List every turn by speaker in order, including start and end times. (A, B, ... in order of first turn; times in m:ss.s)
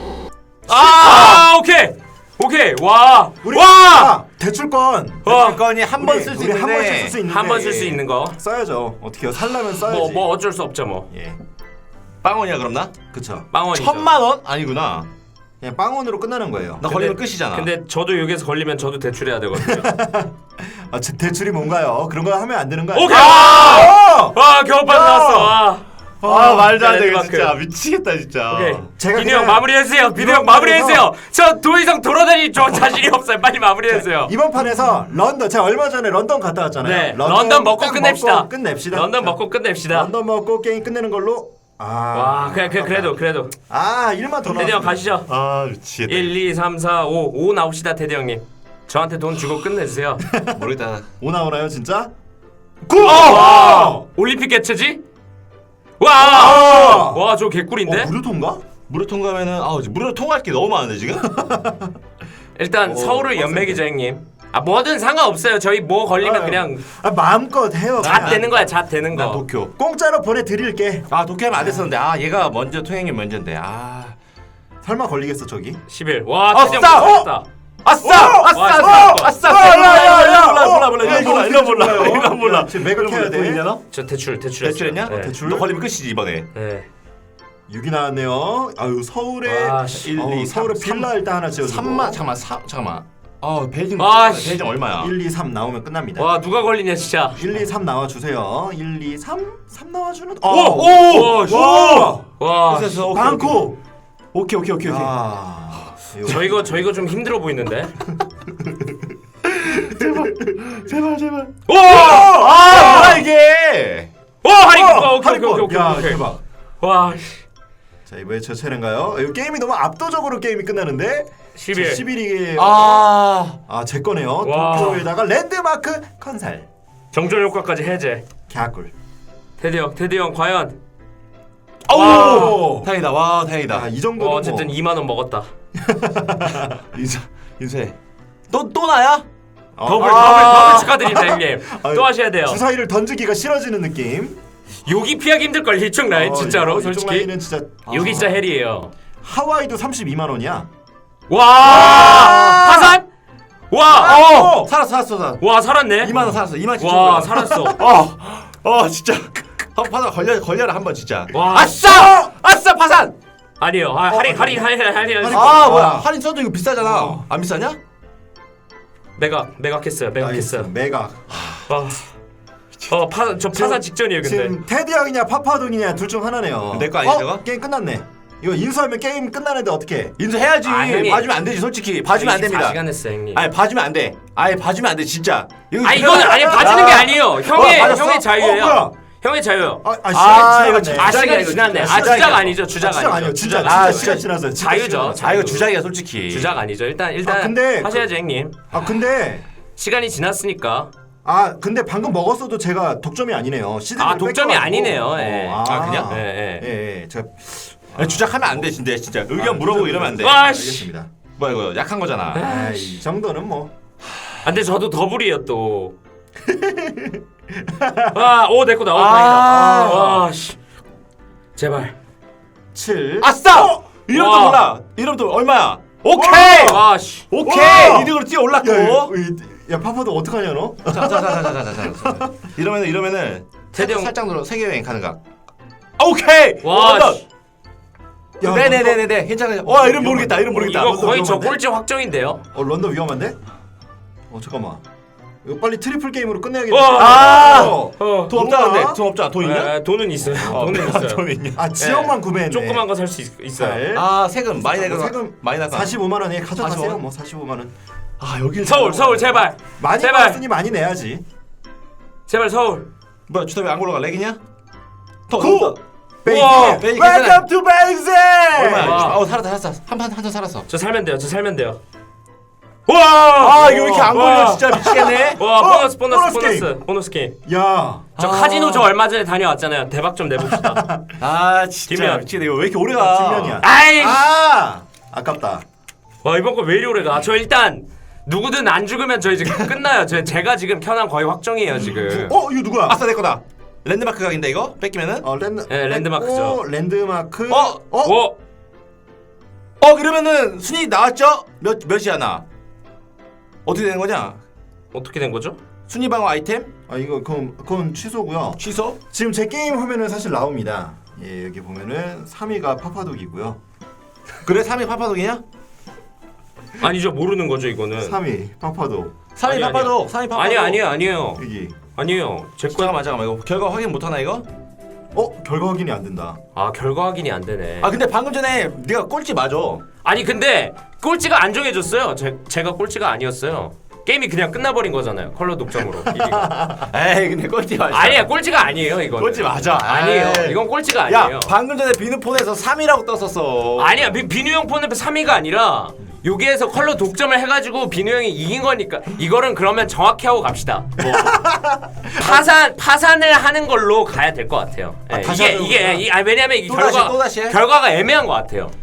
0:00.7-0:04.1 A
0:00.8-0:01.4 B
0:00.8-0:01.3 C
0:03.4-0:05.3 C
0:05.2-0:05.6 A
0:05.2-0:07.2 B
0:06.0-0:10.3 C
0:07.2-0:08.4 A
0:09.7-0:11.1 A
0:11.1-0:11.4 C
0:12.2-0:12.9 B
0:13.1-0:13.5 C
0:13.5-0:14.1 A
0:13.7-0:15.1 B
0:15.6-0:16.9 C
0:16.8-0:17.7 B
0:16.8-0:19.9 A
0:19.6-0:25.6 C
0:22.9-0:27.5 A
0:23.3-0:23.7 B
0:26.2-0:28.8 B
0:26.2-0:26.7 C
0:28.5-0:34.3 A
0:29.0-0:31.0 C
0:33.9-0:39.4 C
0:36.8-0:40.1 A
0:39.9-0:43.2 C
0:42.1-0:43.5 A
0:43.7-0:45.0 C
0:44.4-0:45.3 A
0:45.3-0:46.3 B
0:46.1-0:50.2 A
0:50.2-0:50.7 C
0:50.5-0:51.1 B
0:51.2-0:52.1 C
0:52.8-0:54.1 C
0:53.0-0:55.0 A
0:56.0-0:58.1 A
0:56.2-0:57.2 C
0:57.8-0:58.6 C
0:58.9-1:01.3 B
1:01.2-1:01.9 C
1:02.6-1:06.8 A
1:02.9-1:03.8 C
1:06.2-1:08.4 C
1:08.0-1:08.5 B
1:08.0-1:09.4 A
1:09.1-1:09.7 B
1:09.8-1:11.9 C
1:11.1-1:14.2 B
1:14.8-1:15.8 C
1:15.9-1:17.4 A
1:16.5-1:17.2 B
1:16.8-1:17.3 C
1:17.8-1:23.8 B
1:18.0-1:23.6 C
1:18.5-1:19.9 A
1:23.9-1:25.4 A
1:24.6-1:26.5 B
1:25.1-1:25.8 C
1:26.5-1:26.9 A
1:27.7-1:32.2 C
1:29.4-1:30.1 A
1:29.7-1:31.1 B
1:31.6-1:35.1 B
1:34.0-1:34.6 A
1:35.0-1:36.3 C
1:36.2-1:37.4 A
1:37.4-1:42.2 C
1:40.5-1:43.0 A
1:40.7-1:43.7 B
1:43.0-1:43.8 C
1:44.3-1:45.1 B
1:44.8-1:46.7 C
1:46.2-1:47.9 A
1:48.6-1:48.9 C
1:49.6-1:54.1 B
1:49.6-1:50.6 C
1:51.7-1:53.2 A
1:51.8-1:53.2 C
1:54.4-1:56.2 A
1:54.6-1:56.4 C
1:56.8-1:57.4 A
1:58.0-2:03.1 C
2:01.6-2:02.0 A
2:02.6-2:03.6 B
2:03.7-2:06.7 C
2:04.4-2:05.1 A
2:07.1-2:08.2 A
2:08.5-2:08.9 C
2:09.6-2:10.8 A
2:11.8-2:13.9 B
2:11.9-2:12.6 A
2:11.9-2:12.9 C
2:13.7-2:14.7 C
2:14.2-2:15.5 A
2:15.8-2:16.8 C
2:16.6-2:18.0 B
2:18.5-2:19.2 B
2:19.8-2:24.4 C
2:19.8-2:22.6 A
2:19.9-2:20.9 B
2:24.8-2:27.3 A
2:26.1-2:28.3 C
2:27.9-2:28.3 B
2:27.9-2:28.9 A
2:29.2-2:30.7 C
2:31.3-2:33.0 A
2:31.6-2:33.0 C
2:31.8-2:32.6 B
2:33.7-2:34.3 A
2:33.9-2:35.4 B
2:33.9-2:34.7 C
2:35.4-2:37.8 A
2:36.0-2:43.1 B
2:41.3-2:42.0 A
2:41.8-2:42.3 C
2:43.6-2:45.7 A
2:44.1-2:44.6 C
2:45.2-2:46.1 C
2:45.2-2:47.8 B
2:46.8-2:47.2 C
2:49.2-2:50.7 A
2:50.2-2:51.5 C
2:51.7-2:52.1 A
2:52.9-2:54.6 A
2:53.5-3:00.1 C
2:56.7-2:57.4 B
3:00.2-3:02.8 B
3:00.6-3:01.3 A
3:02.1-3:03.4 A
3:03.3-3:08.2 B
3:05.8-3:09.8 A
3:05.9-3:08.9 C
3:09.8-3:15.6 C
3:10.1-3:12.5 B
3:10.9-3:15.6 A
3:13.6-3:14.3 B
3:15.2-3:16.5 B
3:16.3-3:18.6 A
3:17.2-3:18.1 C
3:18.7-3:19.4 C
3:19.8-3:20.9 A
3:21.2-3:28.7 C
3:24.0-3:26.6 A
3:25.6-3:26.2 B
3:28.0-3:30.4 B
3:29.3-3:31.1 C
3:30.2-3:30.9 A
3:31.4-3:32.4 B
3:32.3-3:33.0 A
3:32.4-3:33.7 C
3:34.4-3:35.9 A
3:36.4-3:38.2 C
3:38.1-3:40.6 A
3:38.9-3:40.2 B
3:39.4-3:40.2 C
3:41.6-3:41.9 A
3:42.7-3:43.8 C
3:43.2-3:49.1 B
3:44.1-3:44.6 A
3:46.1-3:46.8 C
3:46.5-3:47.2 A
3:47.4-3:52.3 C
3:50.9-3:55.2 B
3:53.7-3:54.1 A
3:56.0-3:57.2 B
3:56.6-3:57.2 A
3:58.4-3:59.0 C
3:58.4-4:01.5 B
3:59.6-4:01.6 C
4:00.5-4:02.4 A
4:02.5-4:03.4 C
4:04.3-4:04.8 C
4:05.4-4:09.0 C
4:06.7-4:08.3 A
4:06.9-4:09.7 B
4:09.4-4:11.2 A
4:10.2-4:10.8 C
4:10.4-4:11.6 B
4:11.6-4:12.8 C
4:11.8-4:13.8 A
4:13.6-4:14.1 C
4:13.9-4:15.9 B
4:14.6-4:17.7 C
4:16.6-4:17.0 B
4:18.2-4:19.4 B
4:18.6-4:20.4 A
4:19.8-4:21.2 C
4:22.3-4:22.9 A
4:23.3-4:24.4 B
4:25.3-4:27.5 B
4:25.4-4:29.2 C
4:26.3-4:26.8 A
4:28.5-4:30.6 B
4:28.8-4:29.2 A
4:30.7-4:31.8 A
4:32.9-4:34.6 A
4:33.3-4:35.4 B
4:33.6-4:34.1 C
4:34.7-4:36.7 C
4:35.3-4:37.4 A
4:37.4-4:38.2 C
4:38.2-4:38.9 B
4:38.2-4:40.9 A
4:40.4-4:41.2 C
4:41.2-4:43.6 B
4:41.9-4:42.2 A
4:43.0-4:45.6 C
4:43.6-4:44.2 A
4:46.2-4:52.3 A
4:51.8-4:52.3 B
4:52.1-4:53.0 C
4:52.9-4:55.3 B
4:55.2-4:58.2 C
4:55.7-4:56.6 A
4:57.5-4:57.8 B
4:58.0-4:58.3 A
4:59.8-5:02.4 B
5:03.6-5:04.4 B
5:04.9-5:05.6 A
5:05.9-5:06.7 B
5:06.9-5:08.6 C
5:08.6-5:09.0 B
5:09.1-5:13.6 C
5:14.4-5:15.4 B
5:16.8-5:18.2 A
5:18.0-5:19.1 C
5:19.4-5:20.8 B
5:19.4-5:21.4 A
5:21.4-5:21.8 C
5:22.0-5:22.9 A
5:22.7-5:24.4 B
5:25.1-5:26.4 C
5:26.5-5:27.9 A
5:27.8-5:29.8 B
5:30.0-5:36.5 A
5:35.8-5:36.9 C
5:36.9-5:38.3 B
5:37.9-5:41.5 A
5:39.2-5:44.0 B
5:43.8-5:51.2 A
5:51.0-5:52.4 C
5:52.2-5:58.7 A
5:55.1-5:56.0 B
5:55.2-5:56.0 C
5:56.6-5:57.6 B